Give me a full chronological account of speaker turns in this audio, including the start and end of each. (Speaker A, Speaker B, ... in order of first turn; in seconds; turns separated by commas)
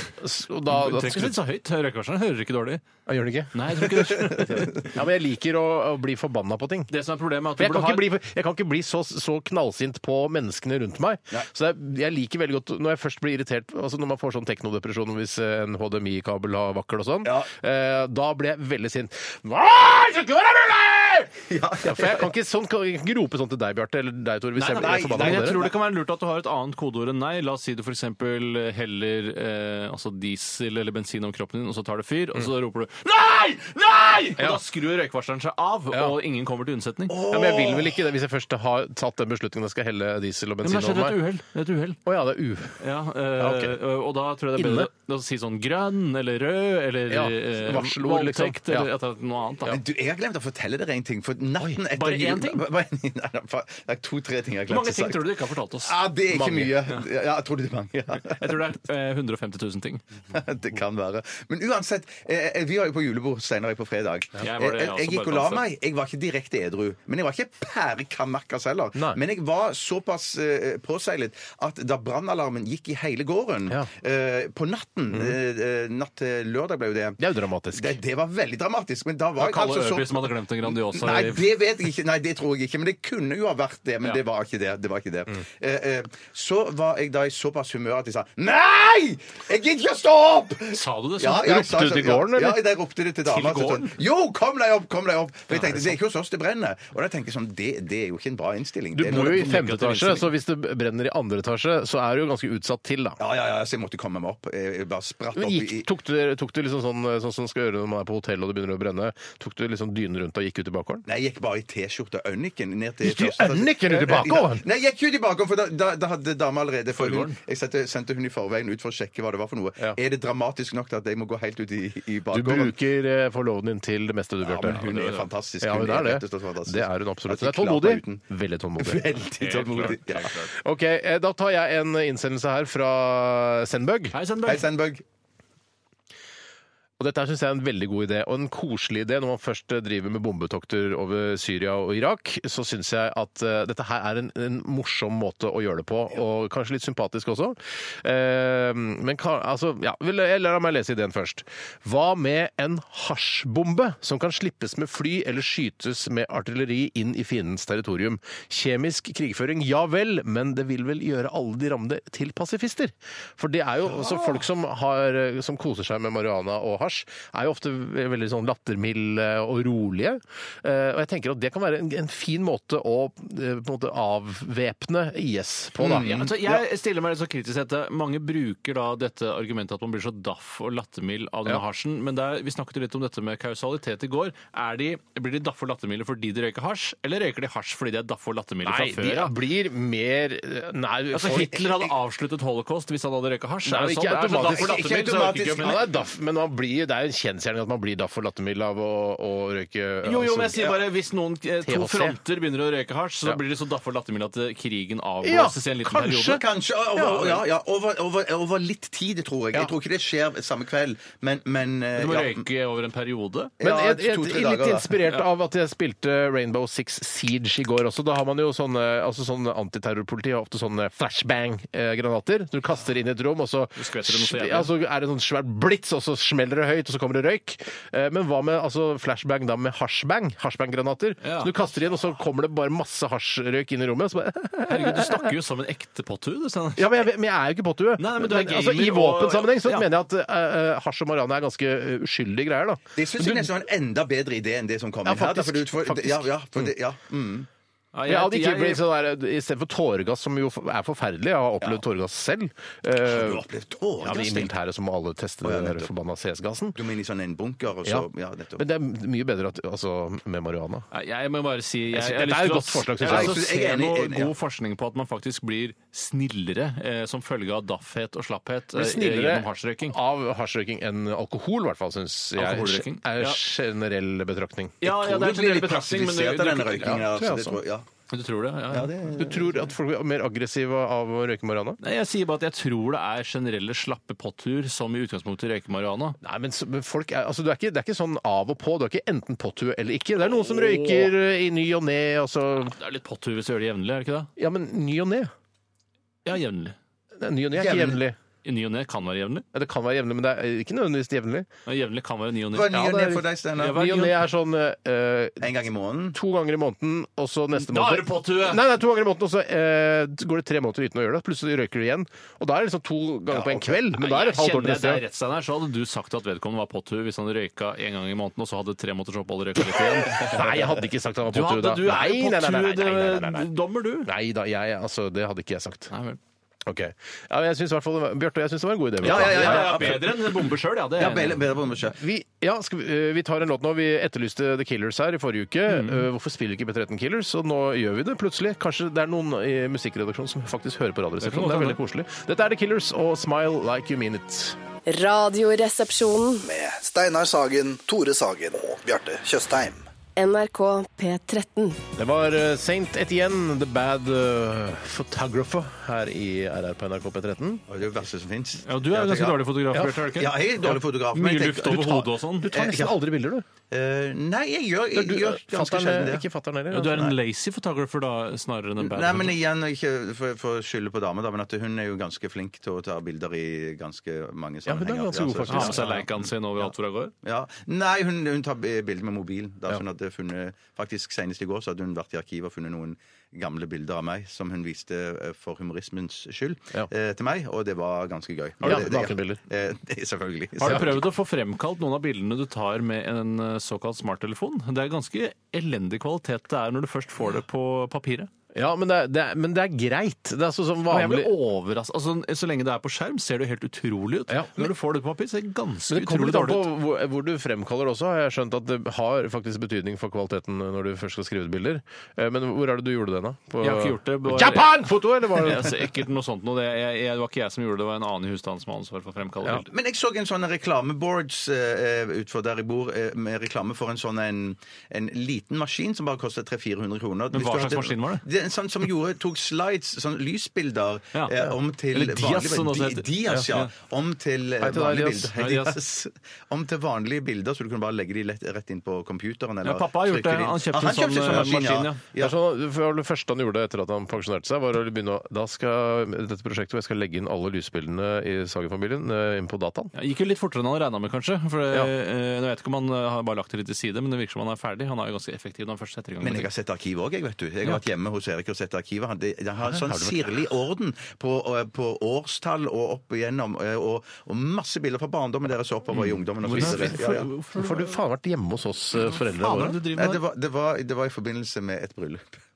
Speaker A: 0.2-1.4, Speaker B: 0.7-2.8, Speaker A: 3.1-6.9, Speaker B: 3.5-4.9, Speaker B: 6.9-8.1, Speaker A: 7.6-25.6, Speaker C: 17.2-17.5, Speaker C: 21.5-22.3, Speaker B: 24.6-37.2, Speaker C: 24.8-25.8, Speaker A: 34.4-34.6, Speaker A: 35.9-36.2, Speaker C: 37.1-38.0, Speaker A: 37.3-41.2, Speaker B: 40.6-42.0, Speaker A: 42.0-42.8, Speaker B: 42.8-49.8, Speaker A: 43.4-43.8, Speaker A: 44.6-44.9, Speaker A: 47.1-48.9, Speaker C: 49.7-58.7, Speaker B: 51.9-52.6, Speaker B: 54.7-56.0, Speaker A: 56.3-56.8, Speaker B: 58.2-60.0, Speaker C: 60.3-77.2, Speaker B: 64.4-65.6, Speaker A: 69.0-69.2, Speaker A: 75.1-75.4, Speaker A: 77.2-78.0, Speaker C: 77.7-99.6, Speaker B: 79.4-81.4, Speaker B: 90.7-91.7, Speaker A: 91.3-92.6, Speaker B: 93.2-94.0, Speaker B: 95.5-95.9, Speaker A: 99.0-103.2, Speaker B: 99.0-100.3, Speaker C: 103.2-105.9, Speaker A: 105.3-111.0, Speaker C: 111.1-122.7, Speaker A: 113.0-114.7, Speaker B: 116.9-117.4, Speaker A: 122.3-124.8, Speaker C: 124.4-128.2, Speaker B: 124.7-125.3, Speaker A: 125.6-129.1, Speaker C: 128.8-130.3, Speaker B: 129.4-130.5, Speaker A: 130.5-134.2, Speaker B: 134.1-134.7, Speaker C: 134.4-135.0, Speaker A: 137.0-176.2, Speaker C: 164.0-164.3, Speaker C: 175.8-176.6, Speaker B: 176.0-189.3, Speaker A: 188.6-191.7, Speaker B: 191.1-195.8, Speaker A: 193.7-194.8, Speaker C: 194.4-196.0, Speaker A: 195.6-200.7, Speaker B: 200.0-206.4, Speaker A: 201.6-202.2, Speaker A: 205.2-206.4, Speaker C: 206.2-212.5, Speaker A: 207.0-207.3, Speaker B: 207.1-207.4, Speaker B: 212.0-213.5, Speaker C: 213.6-214.9, Speaker A: 213.6-235.3, Speaker B: 223.8-224.7, Speaker B: 231.2-231.5, Speaker B: 234.7-237.0, Speaker A: 236.8-243.5, Speaker B: 238.0-239.9, Speaker C: 243.0-247.5, Speaker A: 245.1-246.7, Speaker B: 247.9-248.8, Speaker A: 248.1-253.4, Speaker C: 253.0-254.5, Speaker A: 254.0-256.8, Speaker C: 255.4-255.9, Speaker C: 256.8-258.6, Speaker A: 257.9-260.9, Speaker B: 260.9-270.0, Speaker A: 261.9-263.4, Speaker C: 263.0-264.3, Speaker A: 268.7-274.8, Speaker B: 272.4-273.4, Speaker B: 274.8-277.0, Speaker C: 274.9-277.9, Speaker A: 276.8-277.6, Speaker B: 278.1-278.9, Speaker C: 278.7-279.7, Speaker A: 279.1-281.8, Speaker B: 281.8-286.2, Speaker A: 286.2-292.8, Speaker B: 290.5-290.8, Speaker B: 292.7-294.3, Speaker A: 294.4-295.3, Speaker B: 296.3-296.8, Speaker A: 297.2-298.2, Speaker C: 297.6-298.0, Speaker B: 298.4-299.4, Speaker A: 299.5-301.5, Speaker B: 301.7-302.8, Speaker C: 302.5-303.9, Speaker A: 302.7-305.5, Speaker B: 303.6-304.2, Speaker C: 305.4-306.2, Speaker A: 306.1-315.0, Speaker B: 307.6-308.6, Speaker C: 313.3-313.7, Speaker B: 313.9-320.5, Speaker A: 320.1-323.5, Speaker B: 321.3-324.1, Speaker A: 324.1-325.9, Speaker B: 325.9-326.2, Speaker A: 326.7-330.1, Speaker C: 329.0-330.3, Speaker B: 329.0-331.4, Speaker C: 331.0-332.0, Speaker A: 331.9-344.6, Speaker B: 335.7-336.1, Speaker B: 341.2-341.8, Speaker D: 344.9-346.5, Speaker E: 346.4-349.9, Speaker D: 350.2-351.8, Speaker A: 351.9-357.6, Speaker C: 357.7-359.4, Speaker B: 358.6-362.7, Speaker A: 359.7-360.1, Speaker C: 360.1-363.0, Speaker A: 362.4-363.5, Speaker C: 363.7-366.3, Speaker A: 364.9-367.1, Speaker B: 366.7-369.4, Speaker C: 368.8-376.0, Speaker A: 374.7-376.0, Speaker B: 375.5-377.1, Speaker C: 377.2-391.0, Speaker A: 388.6-389.4, Speaker B: 390.6-398.3, Speaker A: 398.5-401.4, Speaker B: 400.9-406.7, Speaker A: 404.3-404.7, Speaker A: 405.9-415.9, Speaker B: 413.6-419.7, Speaker C: 419.7-442.4, Speaker B: 427.3-428.2, Speaker B: 431.9-433.7, Speaker A: 434.6-435.4, Speaker B: 435.4-435.8, Speaker B: 439.6-442.0, Speaker A: 442.2-449.9, Speaker B: 449.9-456.5, Speaker C: 456.2-467.3, Speaker A: 459.6-460.4, Speaker B: 465.9-467.7, Speaker A: 466.5-469.8, Speaker B: 469.1-470.2, Speaker C: 469.9-472.4